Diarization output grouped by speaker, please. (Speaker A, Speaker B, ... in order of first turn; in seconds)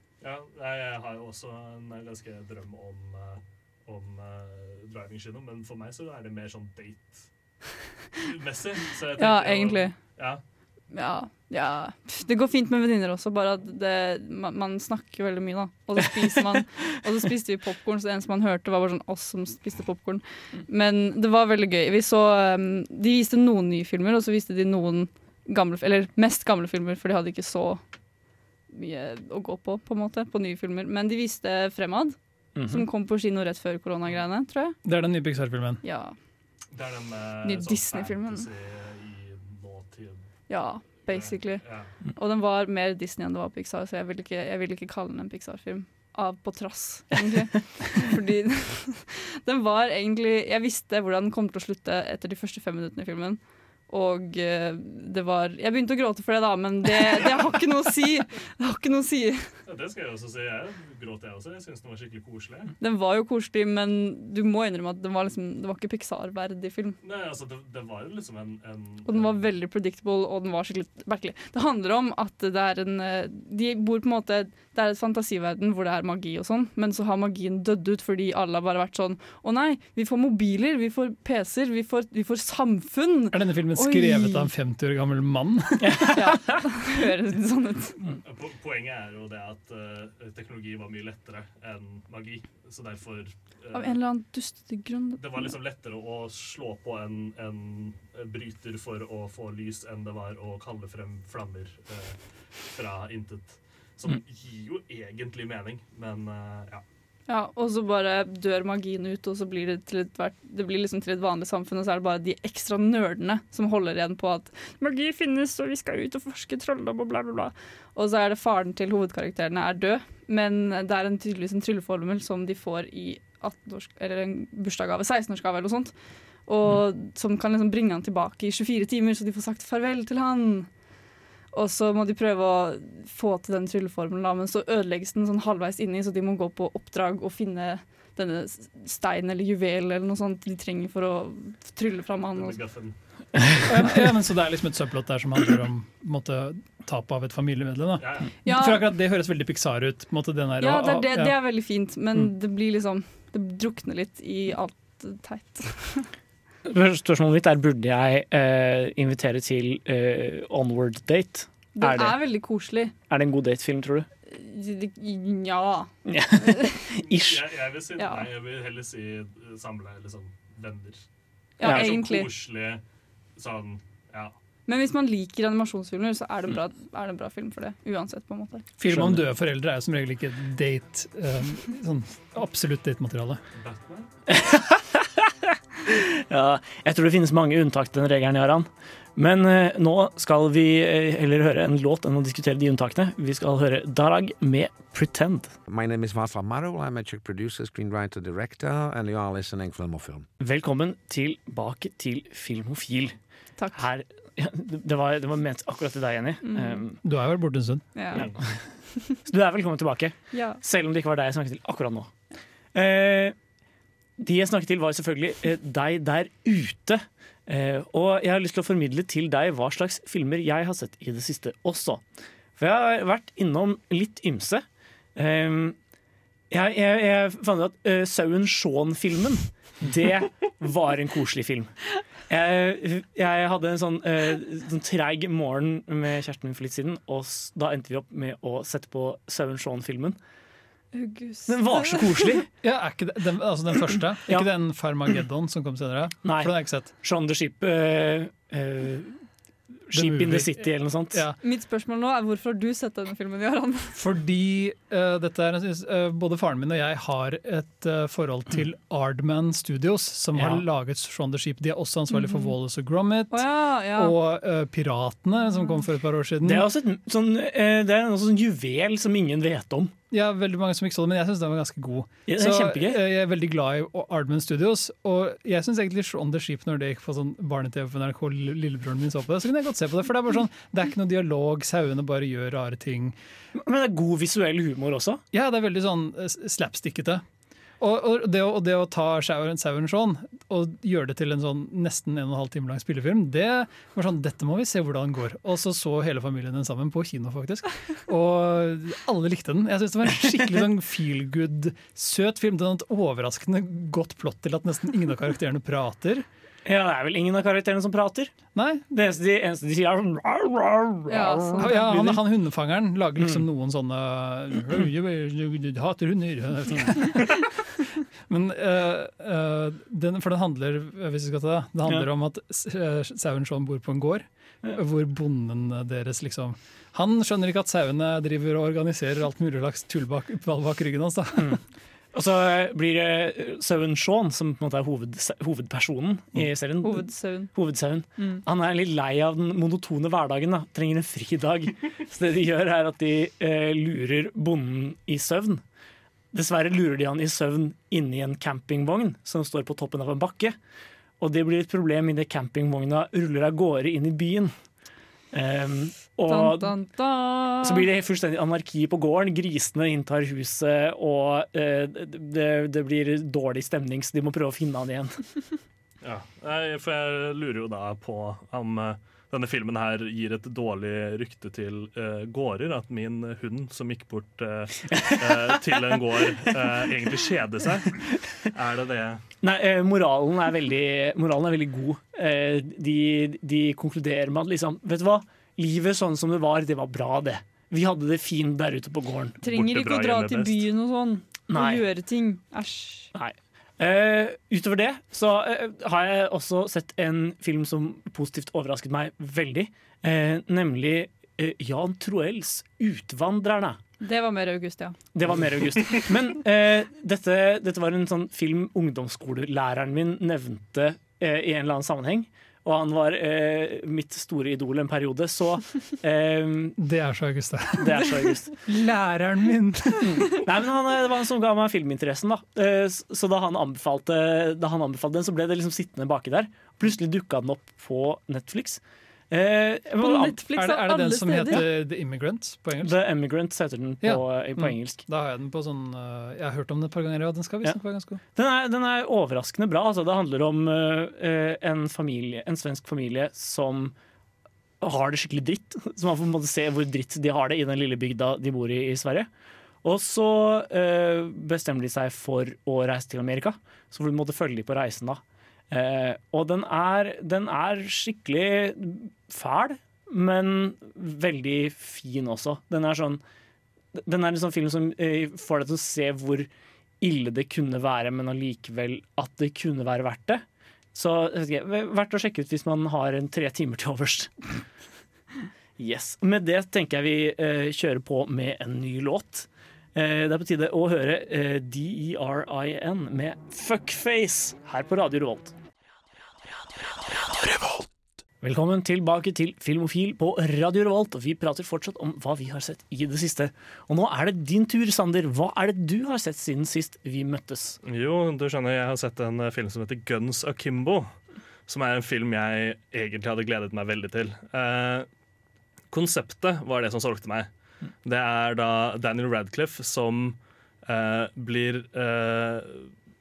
Speaker A: 0.2-7.3, 8.2-10.4, 36.7-40.2, 41.1-41.9, 59.6-62.7, 67.0-69.4, 88.2-94.0, 95.2-102.2, 102.7-106.8, 142.3-142.9, 148.0-148.3, 167.0-171.0, 171.6-172.8, 173.4-174.3, 183.6-184.1, 366.0-379.2, 389.4-390.6, 497.8-501.1, 501.7-505.1, 505.9-507.5, 508.0-512.9
Speaker B: 9.2-9.9, 10.9-27.8, 28.7-32.1, 32.7-34.8, 35.8-36.1, 37.4-38.5, 40.5-41.6, 42.1-59.5, 62.8-67.0, 69.0-84.5, 86.1-88.0, 93.7-95.5, 107.3-125.9, 126.5-130.7, 131.5-142.6, 148.4-148.8, 150.6-156.1, 161.8-162.9, 164.2-166.7, 168.0-168.3, 171.6-172.3, 174.7-178.6, 206.4-206.8, 207.9-208.2, 210.3-210.6, 240.9-242.0, 251.4-254.0, 262.1-262.5, 263.3-264.1, 311.1-311.9, 336.8-337.5, 356.3-357.9, 389.4-393.1, 404.0-405.0, 430.0-431.6
Speaker C: 32.5-32.9, 85.8-86.4, 156.7-162.2, 163.1-164.1, 166.1-167.4, 171.6-171.9, 178.9-179.2, 184.3-185.3, 185.8-195.5, 200.4-203.2, 203.7-207.0, 209.2-212.1, 212.7-213.3, 214.2-222.0, 222.6-224.6, 225.2-225.8, 226.5-240.2, 241.5-242.5, 246.2-249.2, 249.9-251.2, 260.3-260.6, 266.4-269.9, 272.3-273.0, 283.5-285.2, 306.6-308.3, 308.9-312.2, 313.2-313.4, 332.1-345.6, 346.3-350.6, 351.2-354.5, 355.3-356.8, 357.6-365.4, 374.9-375.6, 376.1-377.1, 379.4-389.4, 391.5-391.9, 393.1-403.8, 405.1-416.8, 417.8-418.6, 420.0-428.8, 429.3-430.3, 432.8-435.0, 438.3-443.9, 444.8-449.3, 449.8-463.2, 463.9-466.5, 467.0-470.4, 470.9-474.6, 475.8-485.5, 488.4-497.8
Speaker D: 34.8-35.8, 83.3-86.1, 143.7-151.3, 178.8-183.4, 207.0-207.8, 242.6-246.9, 249.9-251.4, 253.9-266.7, 270.1-283.2, 285.3-287.2, 287.8-306.2, 308.5-308.8, 311.6-317.5, 318.3-331.6, 416.8-418.1, 418.6-420.2, 430.0-432.9, 434.0-438.2
Speaker E: 195.7-200.3